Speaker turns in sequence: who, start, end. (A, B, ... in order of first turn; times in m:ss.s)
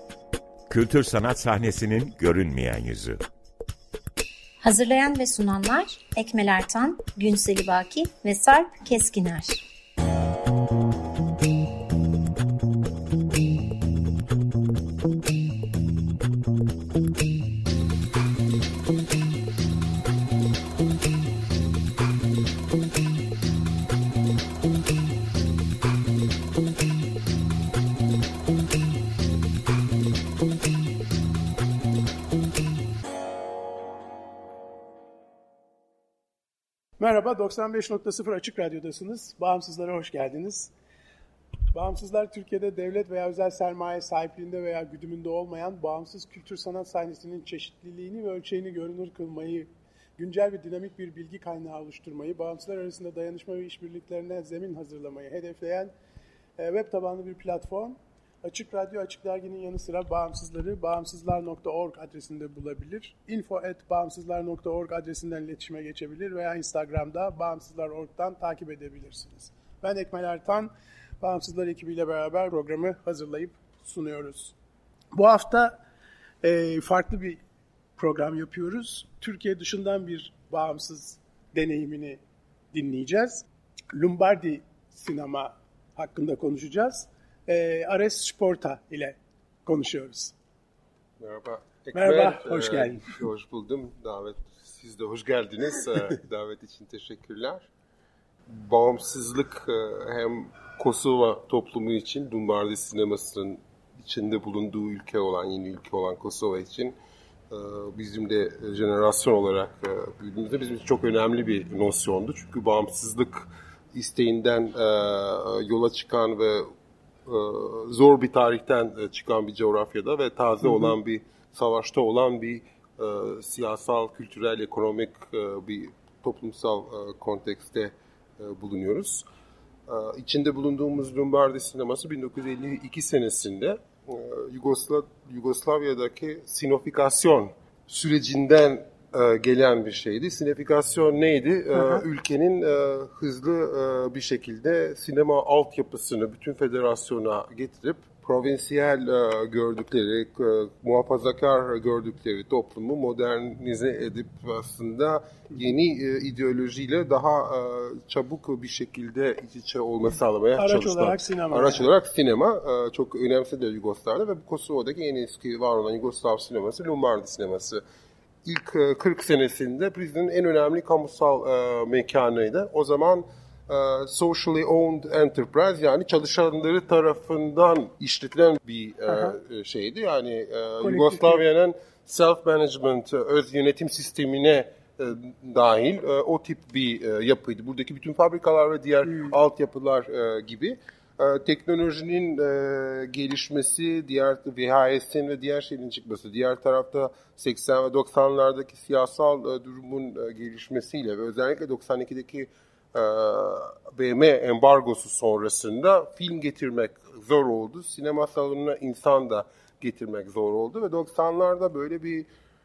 0:00.7-0:03.2 A
0:04.6-0:09.6 B
0:37.0-0:40.7 C
0:41.7-0:55.9 C
0:56.6-1:14.6 C
1:15.1-1:15.8 C
1:16.4-1:17.4 C
1:18.0-1:22.2 C
1:22.7-1:30.4 C
1:31.2-1:37.7 D
1:31.9-1:33.1 C
1:38.5-1:47.0 D
1:47.5-1:56.7 D
1:57.3-2:09.2 D
2:09.9-2:47.8 D
2:21.8-2:22.0 C
2:40.6-2:41.9 C
2:48.4-3:32.3 D
2:59.1-2:59.4 C
3:00.8-3:01.4 C
3:09.1-3:09.4 C